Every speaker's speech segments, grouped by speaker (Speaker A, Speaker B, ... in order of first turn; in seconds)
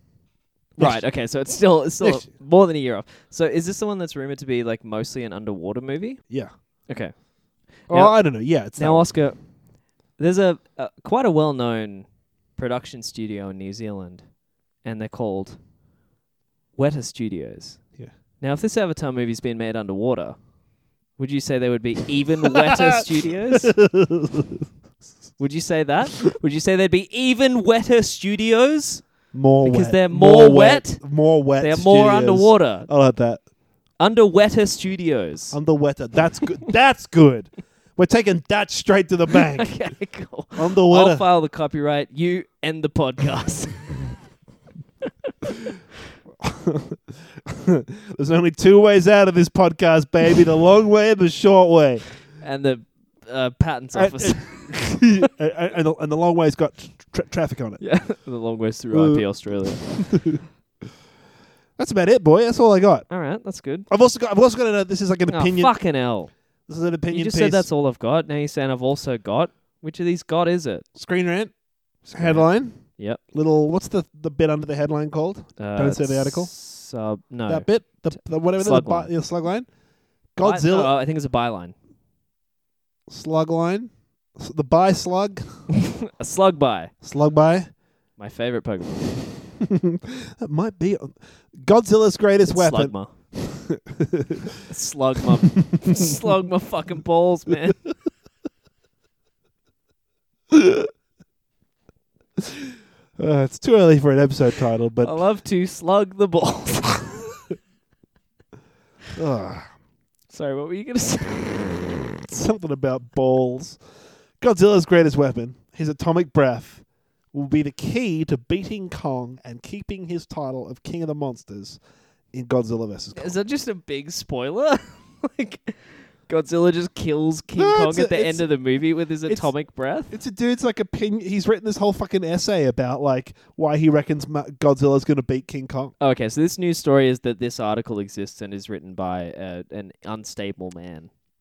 Speaker A: 0.8-6.2, 6.9-7.1, 7.8-8.2, 8.8-9.4, 10.2-14.3, 14.8-15.6, 16.8-17.8, 18.4-20.4, 21.2-23.7, 25.4-31.0, 31.6-32.9, 34.0-35.6, 39.5-43.9, 52.4-55.2, 57.8-60.0, 63.1-63.9, 65.3-66.3, 67.1-70.8, 72.1-73.2, 75.6-79.1, 80.4-81.7, 86.2-86.9, 88.2-89.1, 92.5-93.1, 94.7-97.8, 105.0-107.4, 110.3-111.7, 123.1-130.1, 136.0-141.1
Speaker B: 0.8-1.0, 2.0-2.3, 7.9-9.1, 22.6-23.0, 23.6-24.6, 29.3-33.4, 35.5-39.7, 40.5-41.2, 46.4-52.0, 53.9-57.8, 58.9-59.2, 59.8-60.4, 61.8-63.1, 63.9-65.7, 66.7-67.7, 70.9-76.5, 77.5-79.7, 80.3-80.9, 83.1-85.4, 87.0-87.7, 89.6-94.5, 95.8-96.1, 100.5-100.9, 102.4-105.2, 109.2-109.7, 112.2-113.8, 114.4-121.8, 122.3-123.4, 127.5-128.5, 129.2-129.5, 130.1-135.9